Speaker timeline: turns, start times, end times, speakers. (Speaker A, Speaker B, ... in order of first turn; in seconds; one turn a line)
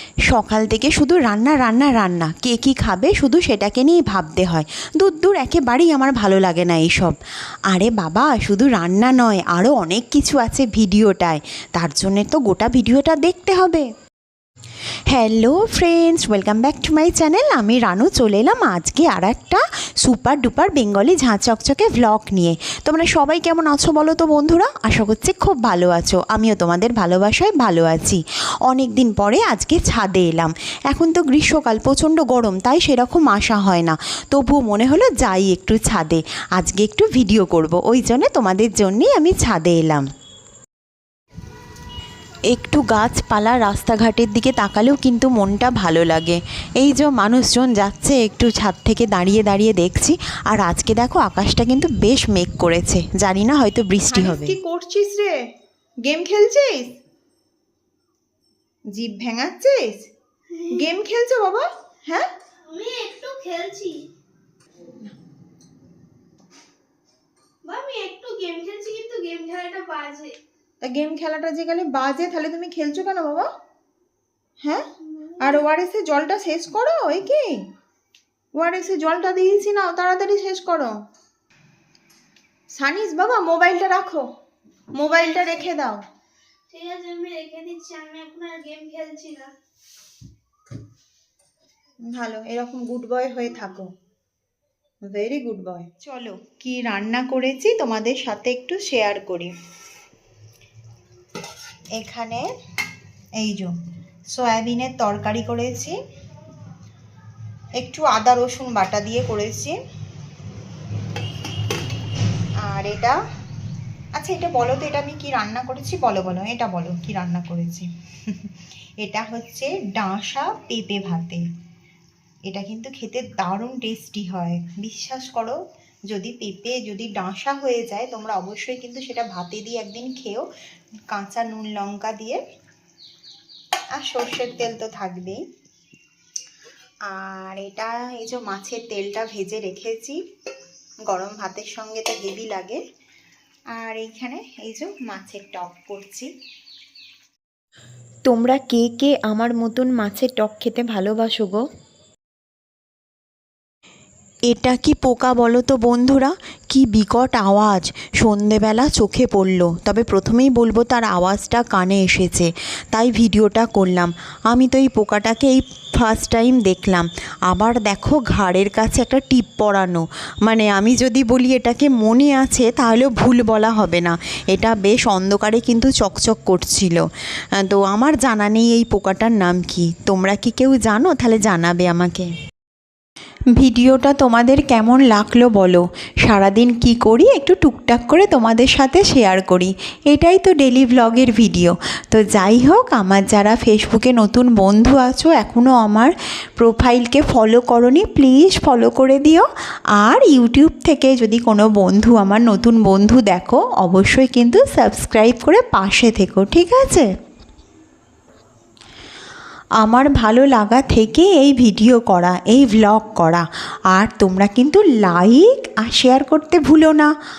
Speaker A: 0.3-7.2
Speaker A: 7.7-13.8
Speaker A: 15.1-40.0
Speaker A: 42.5-54.5
Speaker B: 54.1-55.3
Speaker B: 56.1-56.9
Speaker B: 58.9-60.1
Speaker C: 60.5-60.8
Speaker B: 60.7-62.2
Speaker C: 62.6-64.0
Speaker C: 67.6-70.4
Speaker B: 70.8-73.5
Speaker B: 75.4-77.5
Speaker B: 78.5-80.9
Speaker B: 82.7-84.2
Speaker B: 84.9-86.0
Speaker C: 85.1-85.8
Speaker C: 86.7-89.5
Speaker B: 92.1-93.9
Speaker B: 95.1-95.9
Speaker A: 96.0-96.6
Speaker B: 96.7-98.9
Speaker B: 102.0-102.4
Speaker B: 103.4-103.7
Speaker B: 104.3-105.9
Speaker B: 107.8-109.8
Speaker B: 112.7-113.2
Speaker B: 114.2-117.9
Speaker B: 119.0-121.4
Speaker B: 122.5-125.5
Speaker B: 126.1-128.5
Speaker A: 128.7-130.4
Speaker B: 131.1-132.4
Speaker B: 134.0-135.0
Speaker A: 137.1-140.2
Speaker B: 141.5-142.8
Speaker B: 144.1-145.0
Speaker A: 148.3-151.6
Speaker A: 154.5-177.1
Speaker A: 177.7-182.3
Speaker A: 183.6-199.5
Speaker A: 200.0-207.1
Speaker A: 209.8-217.1